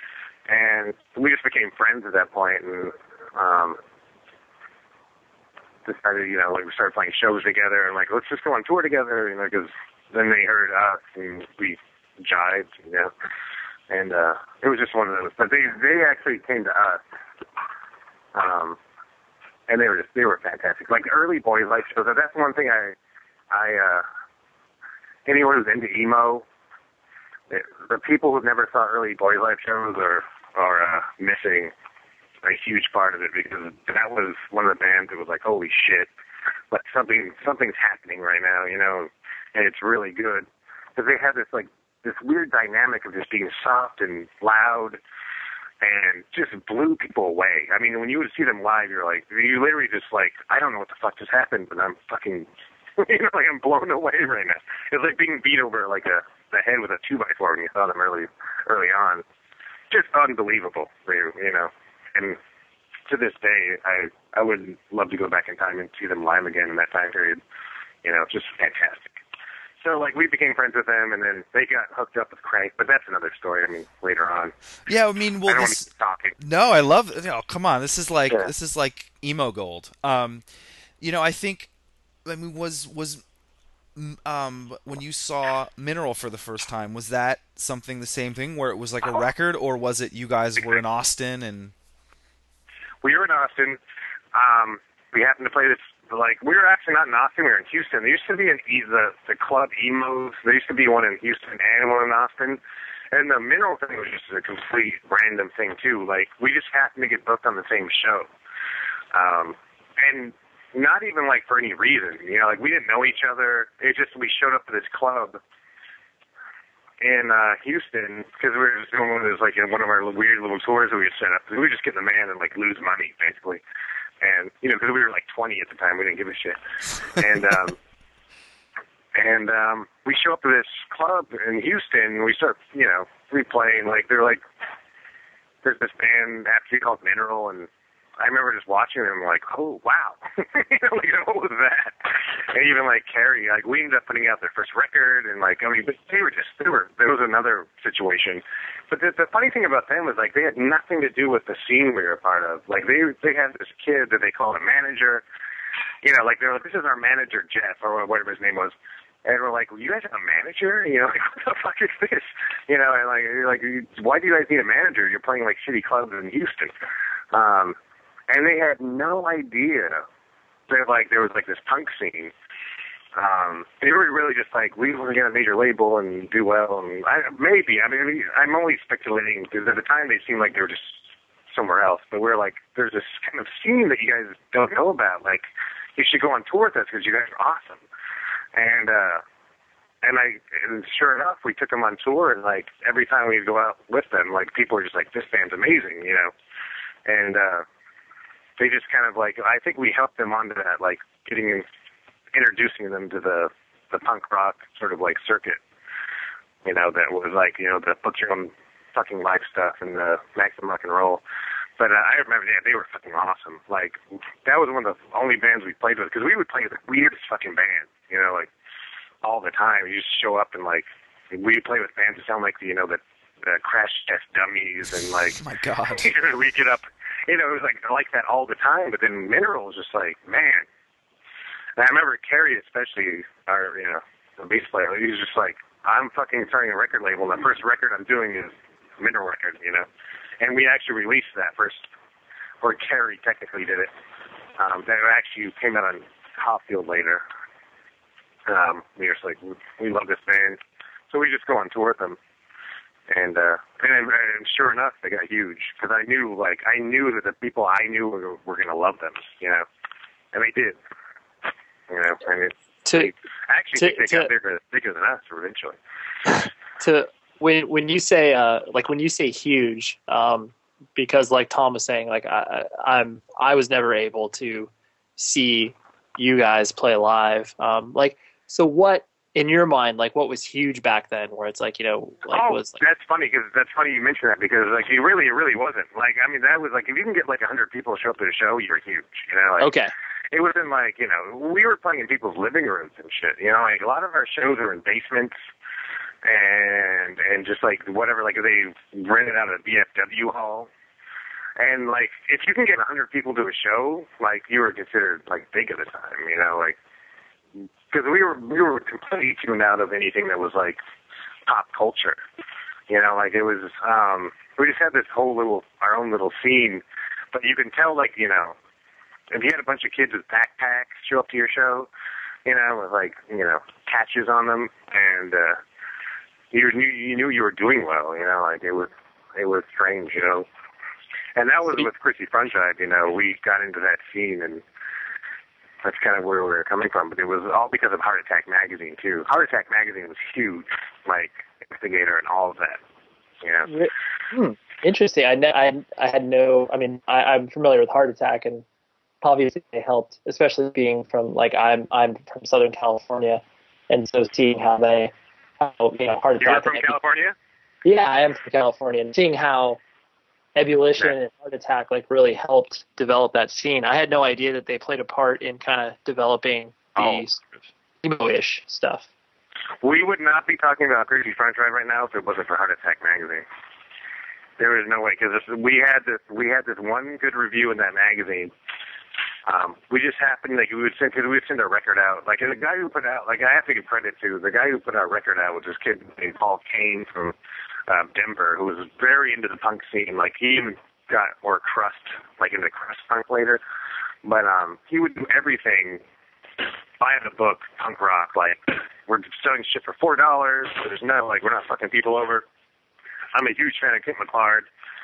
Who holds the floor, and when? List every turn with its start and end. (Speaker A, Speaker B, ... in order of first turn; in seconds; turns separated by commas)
Speaker A: 0.5-3.8, Speaker A: 5.8-13.1, Speaker A: 13.9-17.0, Speaker A: 18.3-18.8, Speaker A: 19.7-22.9, Speaker A: 23.5-24.0, Speaker A: 25.2-26.4, Speaker A: 27.5-31.7, Speaker A: 32.4-36.1, Speaker A: 36.7-45.0, Speaker A: 45.8-52.5, Speaker A: 53.0-59.2, Speaker A: 59.9-62.4, Speaker A: 63.1-67.4, Speaker A: 68.0-69.2, Speaker A: 69.8-74.5, Speaker B: 74.9-80.4, Speaker A: 75.5-76.3, Speaker B: 81.0-81.7, Speaker B: 82.2-83.2, Speaker B: 83.9-91.7, Speaker A: 93.0-93.8, Speaker A: 94.3-102.6, Speaker A: 103.1-108.3, Speaker A: 109.1-115.4, Speaker A: 117.0-123.6, Speaker A: 124.2-127.8, Speaker A: 129.1-134.4, Speaker A: 135.6-137.7, Speaker A: 138.2-155.2, Speaker A: 156.0-166.7, Speaker A: 167.3-167.8, Speaker A: 168.3-170.0, Speaker A: 170.7-172.3, Speaker A: 173.2-185.4, Speaker A: 186.0-187.8, Speaker A: 188.5-189.2, Speaker A: 190.0-196.3, Speaker A: 197.1-197.7, Speaker A: 198.6-201.7, Speaker A: 202.3-205.6, Speaker A: 206.6-211.2, Speaker A: 211.8-218.5, Speaker A: 219.2-225.4, Speaker B: 225.2-226.1, Speaker A: 225.9-230.7, Speaker A: 231.8-239.9, Speaker A: 240.4-241.9, Speaker A: 242.6-243.9, Speaker A: 244.6-247.2, Speaker A: 248.5-252.2, Speaker A: 253.1-259.6, Speaker A: 260.3-260.8, Speaker A: 261.9-265.8, Speaker C: 262.8-263.1, Speaker C: 263.7-264.3, Speaker C: 266.8-282.8, Speaker A: 282.3-289.7, Speaker C: 289.6-289.9, Speaker A: 290.3-295.3, Speaker A: 296.2-300.7, Speaker A: 301.6-306.8, Speaker A: 307.6-310.8, Speaker A: 311.5-312.2, Speaker A: 312.9-318.5, Speaker A: 319.3-321.9, Speaker A: 322.4-325.6, Speaker A: 326.5-330.5, Speaker A: 331.4-334.6, Speaker A: 335.8-342.8, Speaker A: 343.4-343.7, Speaker C: 343.7-348.6, Speaker C: 349.2-356.9, Speaker A: 356.4-357.3, Speaker C: 357.8-359.8, Speaker C: 360.6-367.4, Speaker A: 366.9-367.2, Speaker C: 368.0-369.1, Speaker A: 369.8-373.4, Speaker A: 374.6-378.5, Speaker A: 379.5-387.3, Speaker A: 387.9-393.6, Speaker A: 394.2-396.0, Speaker A: 397.0-402.4, Speaker A: 403.3-404.7